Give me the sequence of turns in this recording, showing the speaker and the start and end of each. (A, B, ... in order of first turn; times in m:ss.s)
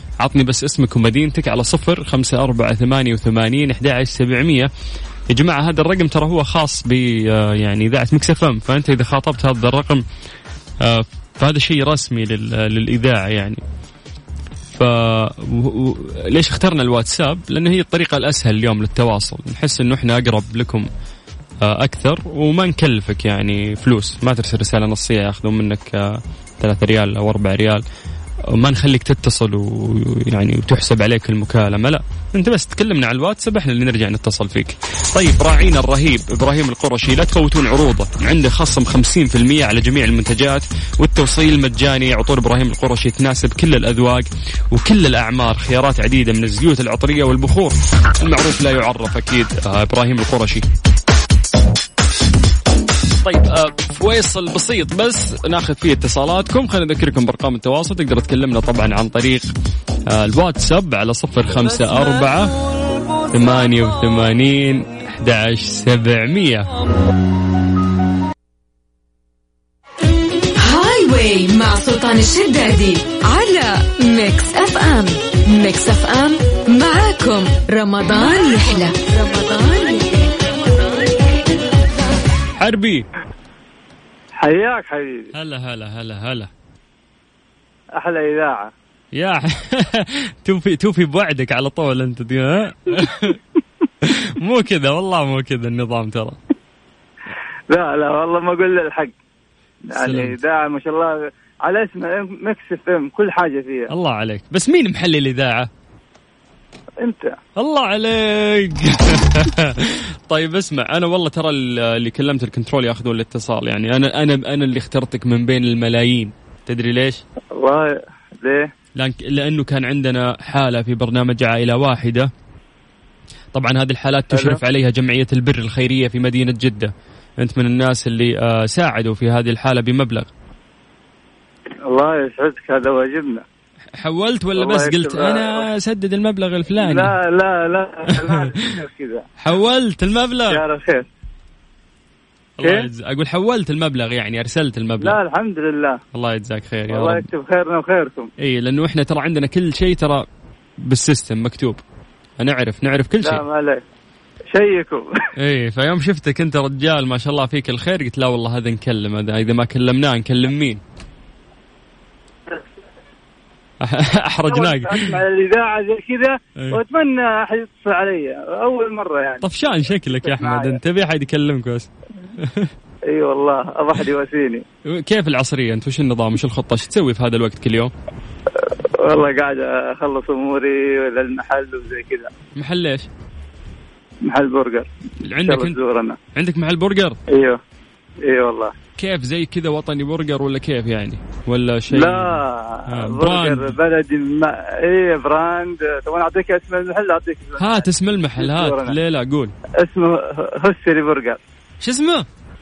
0:00.2-0:04.7 A
0:05.3-0:10.0 A
0:10.8-0:13.6 A
0:14.8-0:20.9 A
0:21.6-0:27.8 A
0:28.5-0:50.6 A
0:53.2-0:59.5 A
1:00.1-1:02.5 A
1:03.3-1:06.7 A
1:10.6-1:20.3 B
1:22.6-1:23.1 A
1:24.4-1:25.3 C
1:25.3-1:26.5 A
1:28.0-1:28.7 C
1:29.1-1:33.4 A
1:34.0-1:36.4 A
1:37.7-1:39.1 C
1:39.9-1:43.9 C
1:39.9-1:40.4 A
1:43.9-1:45.7 A
1:47.0-1:47.4 C
1:47.6-1:57.2 A
1:57.6-1:58.7 C
1:59.0-2:02.3 A
2:03.5-2:10.3 A
2:04.3-2:04.6 C
2:11.9-2:13.4 C
2:14.0-2:17.2 A
2:14.6-2:15.7 C
2:16.8-2:19.2 C
2:18.2-2:18.7 A
2:19.4-2:20.6 A
2:20.5-2:21.1 C
2:22.6-2:25.2 A
2:22.6-2:22.9 C
2:25.0-2:26.0 C
2:26.1-2:27.3 A
2:26.9-2:28.3 C
2:28.4-2:30.3 A
2:30.8-2:31.8 A
2:32.4-2:33.4 A
2:33.2-2:33.8 C
2:34.5-2:35.1 C
2:35.4-2:40.8 A
2:43.8-2:45.2 A
2:44.5-2:49.5 C
2:49.4-2:52.7 A
2:50.1-2:50.8 C
2:53.1-2:54.6 C
2:54.9-2:57.9 A
2:59.0-3:02.3 C
3:02.6-3:03.1 A
3:04.3-3:04.9 C
3:05.2-3:05.8 A
3:05.4-3:06.2 C
3:06.3-3:07.2 A
3:07.3-3:07.6 C
3:08.2-3:08.7 C
3:09.0-3:13.8 A
3:11.9-3:19.0 C
3:17.6-3:19.5 A
3:19.8-3:21.4 C
3:21.8-3:22.3 A